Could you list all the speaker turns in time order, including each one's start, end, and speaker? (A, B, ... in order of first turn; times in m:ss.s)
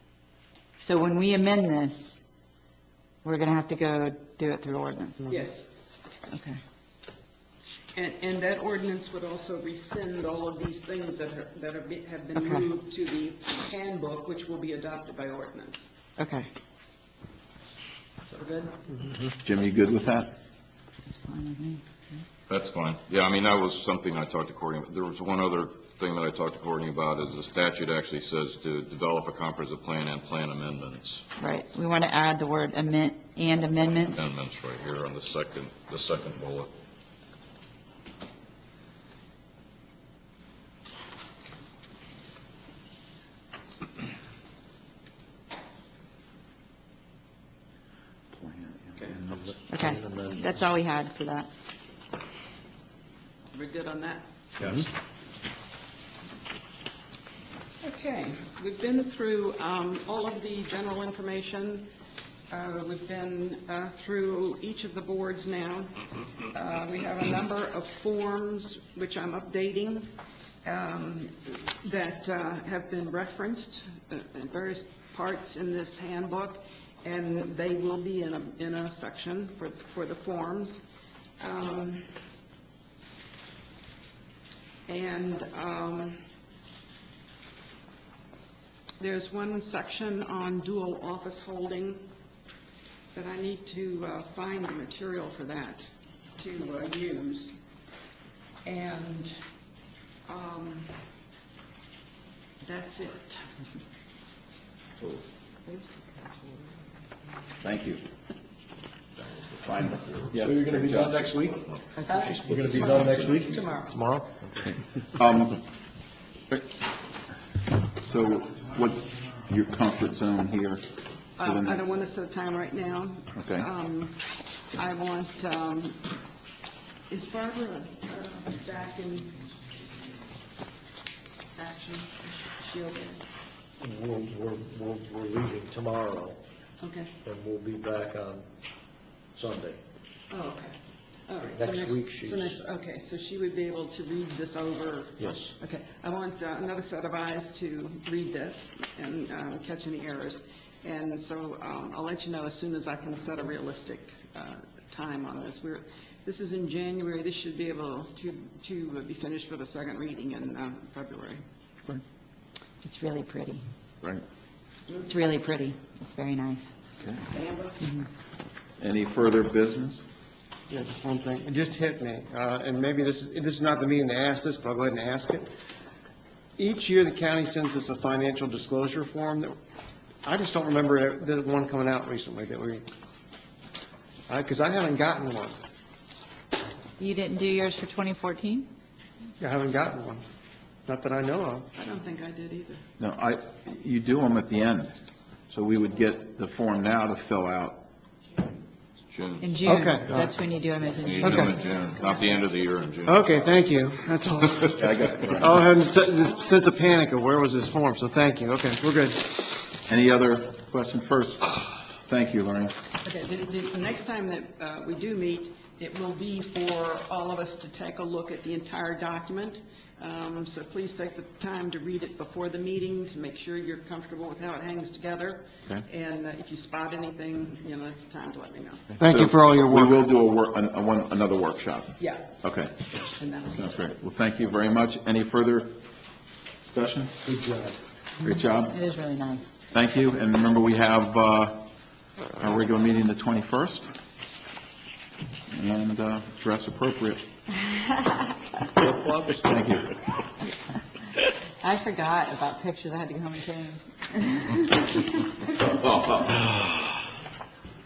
0:00.8-0:02.2 A
0:03.2-0:05.3 A
0:05.2-0:05.7 B
0:06.3-0:06.6 A
0:07.9-0:15.9 B
0:12.4-0:12.7 A
0:16.2-0:16.5 A
0:18.4-0:18.8 B
0:19.4-0:20.4 C
0:21.1-0:22.2 A
0:22.5-0:31.2 D
0:31.4-0:34.2 A
0:34.1-0:36.7 D
0:48.3-0:49.5 C
0:49.2-0:50.4 E
0:49.7-0:51.5 A
0:53.5-0:54.8 B
0:57.8-1:01.9 B
1:02.5-1:20.8 B
1:21.4-1:22.2 B
1:24.8-1:26.2 B
1:29.0-1:32.1 B
1:33.1-1:37.5 B
1:38.6-1:39.4 B
1:40.3-1:41.1 B
1:42.6-1:43.5 B
1:47.6-1:48.0 C
1:49.5-1:51.2 C
1:50.3-1:54.8 E
1:50.6-1:51.8 D
1:52.0-1:54.0 B
1:53.0-1:53.4 D
1:55.2-1:55.6 C
1:58.0-2:00.8 C
2:01.4-2:06.2 B
2:01.4-2:01.8 C
2:03.4-2:03.7 C
2:07.1-2:09.5 B
2:11.6-2:13.2 B
2:13.8-2:16.4 E
2:16.8-2:17.1 B
2:17.2-2:18.5 E
2:19.3-2:19.8 E
2:20.3-2:20.8 B
2:21.3-2:41.4 B
2:21.5-2:22.6 E
2:25.2-2:25.5 E
2:42.8-2:43.6 A
2:45.0-2:46.6 A
2:47.3-2:47.8 B
2:47.8-2:48.1 A
2:48.8-2:50.1 C
2:50.7-2:55.4 F
2:56.6-2:59.6 F
3:00.2-3:02.8 F
3:04.3-3:05.6 F
3:07.0-3:08.7 A
3:09.4-3:10.2 F
3:10.9-3:11.7 F
3:11.7-3:12.8 B
3:13.0-3:14.9 C
3:15.5-3:17.8 C
3:19.1-3:19.5 D
3:19.4-3:21.6 A
3:19.6-3:20.4 F
3:21.0-3:23.5 D
3:21.2-3:21.5 F
3:23.0-3:29.6 F
3:24.6-3:25.6 C
3:29.9-3:32.8 C
3:33.0-3:49.0 B
3:49.0-3:50.0 F
3:49.0-3:52.7 C
3:52.0-3:52.3 B
3:53.1-3:53.8 B
3:53.4-3:55.8 C
3:56.6-3:57.2 C
3:57.2-3:57.8 E
3:58.2-3:58.8 C
3:58.7-3:59.4 A
3:59.7-4:01.7 C
4:02.3-4:03.9 C
4:05.5-4:07.2 C
4:08.8-4:09.5 E
4:09.4-4:09.9 C
4:11.6-4:15.1 A